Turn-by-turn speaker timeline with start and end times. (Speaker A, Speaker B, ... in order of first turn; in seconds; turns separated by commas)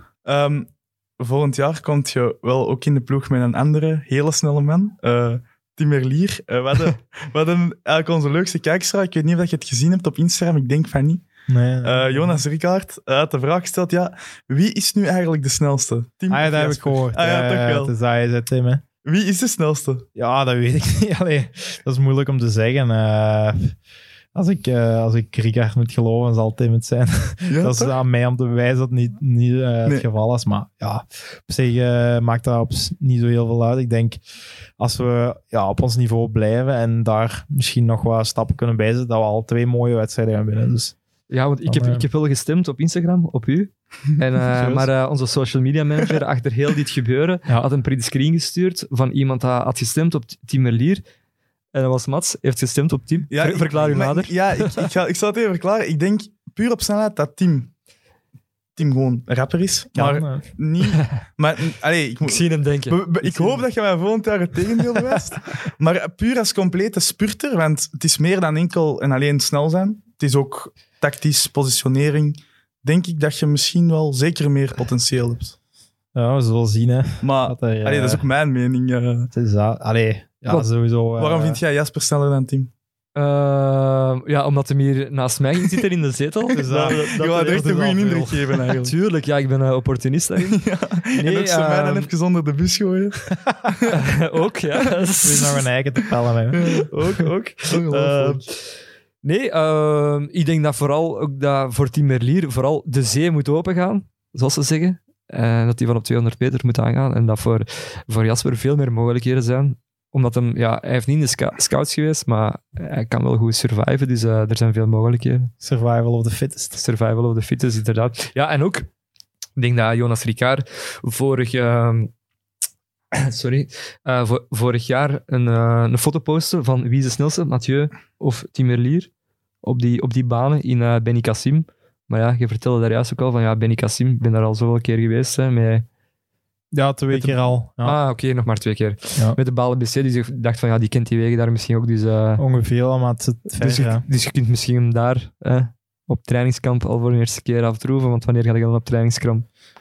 Speaker A: 0.2-11.2, Speaker B: 11.5-12.4, Speaker A: 11.8-17.9, Speaker B: 16.3-18.8, Speaker A: 19.1-20.1, Speaker B: 20.2-23.7, Speaker B: 24.4-34.2, Speaker A: 27.5-27.9, Speaker B: 34.8-41.0, Speaker C: 41.3-51.0, Speaker B: 41.7-42.0, Speaker B: 44.5-44.9, Speaker C: 51.7-54.8, Speaker A: 53.3-57.7, Speaker A: 58.8-75.5, Speaker B: 60.0-60.5, Speaker C: 62.2-63.6, Speaker B: 76.2-78.2, Speaker A: 77.2-79.3, Speaker B: 79.3-81.6, Speaker A: 81.2-82.7, Speaker C: 83.2-90.6, Speaker B: 86.5-87.1, Speaker A: 86.8-88.9, Speaker A: 90.4-94.0, Speaker C: 91.2-92.1, Speaker C: 93.9-95.6, Speaker B: 95.2-96.6, Speaker A: 96.5-98.4, Speaker C: 96.6-98.6, Speaker C: 99.2-115.5, Speaker B: 115.6-116.8, Speaker C: 116.8-118.9, Speaker C: 119.6-122.1, Speaker C: 123.1-129.1, Speaker C: 129.6-135.8, Speaker B: 136.7-138.0, Speaker C: 137.1-142.4, Speaker B: 142.4-144.1, Speaker C: 143.6-149.4